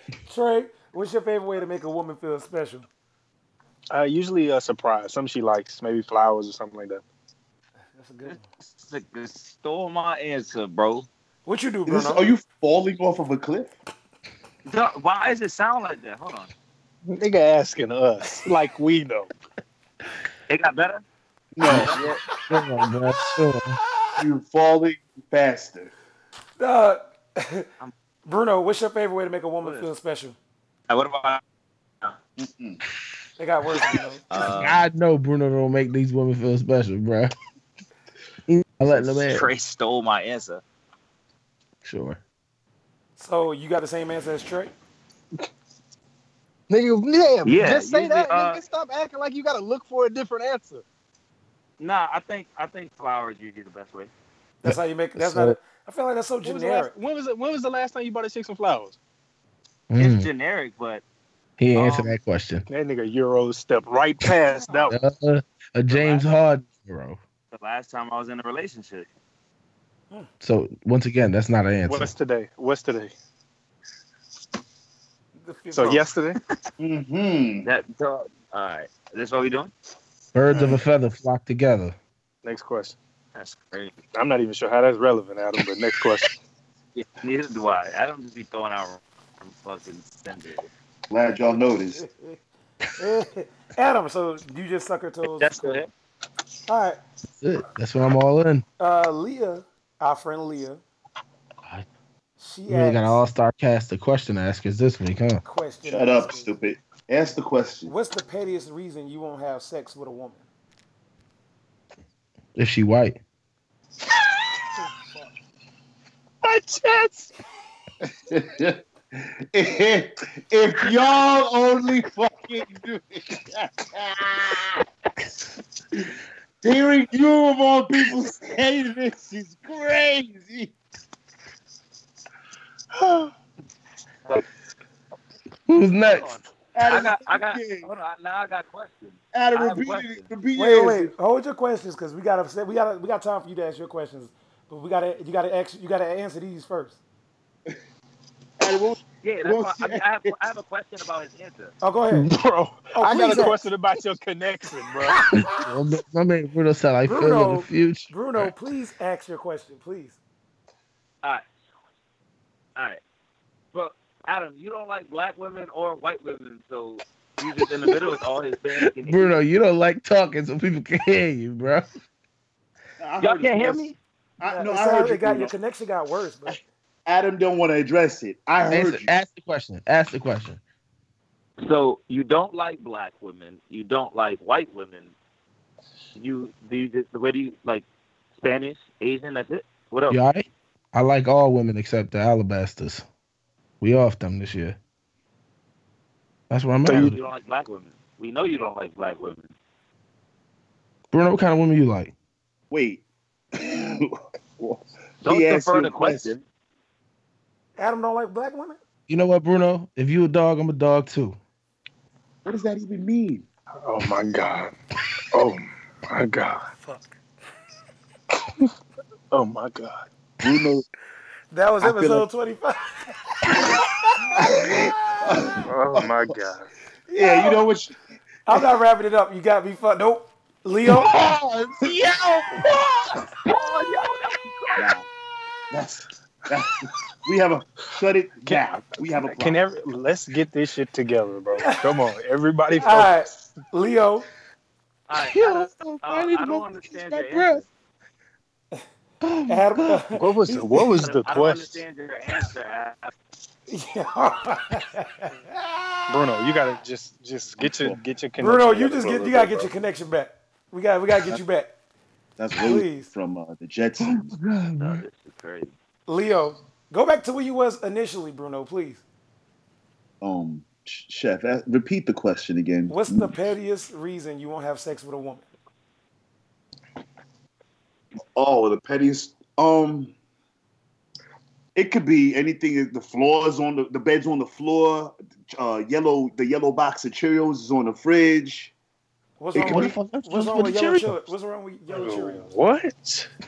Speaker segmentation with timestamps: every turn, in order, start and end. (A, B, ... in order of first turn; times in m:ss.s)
0:00.2-0:02.9 A
0:03.9-0:07.0 B
0:08.0-0:08.4 A
0:08.2-0:11.1 C
0:11.4-0:12.3 A
0:11.9-0:13.7 D
0:14.6-0:16.5 C
0:17.1-0:19.3 B
0:20.5-0:21.0 C
0:21.6-0:22.1 D
0:21.6-0:21.9 E
0:21.7-0:22.2 C
0:22.5-0:23.8 E
0:24.2-0:25.9 D
0:26.6-0:27.7 A
0:28.2-0:30.4 A
0:29.6-0:29.9 C
0:30.9-0:31.4 C
0:32.4-0:32.8 D
0:33.4-0:34.2 A
0:34.3-0:34.8 C
0:34.4-0:37.3 E
0:38.5-0:39.5 E
0:38.9-0:40.6 C
0:41.8-0:42.2 E
0:43.2-0:44.7 A
0:46.7-0:50.8 B
0:47.4-0:48.6 C
0:51.8-0:54.1 C
0:54.6-0:56.9 A
0:54.6-0:55.6 E
0:56.4-0:59.0 B
0:59.9-1:00.3 E
1:00.0-1:01.0 C
1:01.6-1:02.6 E
1:01.7-1:02.2 C
1:02.7-1:05.0 B
1:04.9-1:07.2 E
1:05.9-1:06.3 C
1:07.5-1:09.1 C
1:10.4-1:12.1 E
1:11.9-1:13.1 B
1:15.4-1:16.1 A
1:15.7-1:16.4 B
1:16.8-1:17.7 D
1:17.6-1:19.7 C
1:20.3-1:22.0 E
1:22.4-1:23.0 B
1:23.3-1:24.0 C
1:24.1-1:26.3 B
1:26.9-1:30.7 C
1:31.1-1:32.0 D
1:31.5-1:32.4 A
1:32.9-1:35.8 A
1:35.4-1:35.9 C
1:36.7-1:37.0 A
1:37.4-1:38.6 E
1:38.8-1:40.8 A
1:42.4-1:43.2 A
1:42.7-1:45.4 E
1:45.4-1:46.5 A
1:45.9-1:47.9 D
1:47.9-1:50.4 A
1:52.5-1:53.2 E
1:56.4-1:57.3 B
1:58.3-2:04.7 D
2:06.6-2:10.7 D
2:12.9-2:13.3 B
2:15.7-2:16.4 E
2:16.0-2:20.2 C
2:16.7-2:17.9 D
2:19.3-2:21.1 D
2:20.6-2:27.0 A
2:28.6-2:30.3 D
2:29.2-2:31.7 C
2:31.8-2:32.3 A
2:32.1-2:35.2 B
2:32.9-2:33.6 A
2:35.1-2:35.7 A
2:35.3-2:38.5 E
2:37.0-2:40.2 A
2:43.7-2:49.3 C
2:47.7-2:48.0 E
2:48.8-2:51.9 E
2:53.0-2:53.9 D
2:53.2-2:54.0 C
2:54.4-2:55.5 D
2:54.4-2:56.6 A
2:56.5-2:59.1 D
2:58.7-3:00.6 E
3:01.6-3:05.1 C
3:06.1-3:07.8 C
3:08.4-3:10.2 C
3:10.1-3:13.0 E
3:13.8-3:14.8 E
3:16.5-3:17.2 E
3:16.9-3:17.2 B
3:16.9-3:19.5 C
3:21.1-3:22.1 E
3:22.7-3:23.0 D
3:23.5-3:26.4 D
3:25.2-3:26.4 C
3:27.8-3:28.8 A
3:29.1-3:31.4 E
3:32.4-3:33.4 D
3:33.8-3:34.7 B
3:35.3-3:36.7 B
3:36.7-3:37.2 A
3:39.3-3:40.1 B
3:40.4-3:40.9 D
3:41.5-3:44.9 A
3:41.8-3:42.2 D
3:44.3-3:46.3 D
3:45.6-3:46.7 B
3:47.1-3:47.6 A
3:47.2-3:48.0 D
3:48.4-3:51.2 A
3:50.9-3:52.9 E
3:53.2-3:54.9 C
3:54.8-3:55.1 D
3:55.7-3:59.6 D
3:58.4-4:03.2 B
4:01.5-4:02.0 A
4:02.8-4:04.3 A
4:05.1-4:07.6 C
4:05.3-4:07.6 E
4:09.2-4:10.0 E
4:09.5-4:10.8 A
4:10.1-4:11.8 B
4:11.0-4:13.1 C
4:13.7-4:15.4 A
4:16.1-4:19.7 B
4:17.6-4:18.0 D
4:18.4-4:21.7 A
4:22.4-4:24.3 D
4:22.5-4:23.1 A
4:24.0-4:25.0 E
4:24.8-4:25.7 C
4:26.1-4:29.0 A
4:30.2-4:33.4 D
4:32.9-4:35.4 A
4:38.4-4:40.1 D
4:41.7-4:48.7 D
4:49.4-4:52.5 A
4:49.5-4:49.9 D
4:49.6-4:51.2 E
4:51.9-4:53.3 B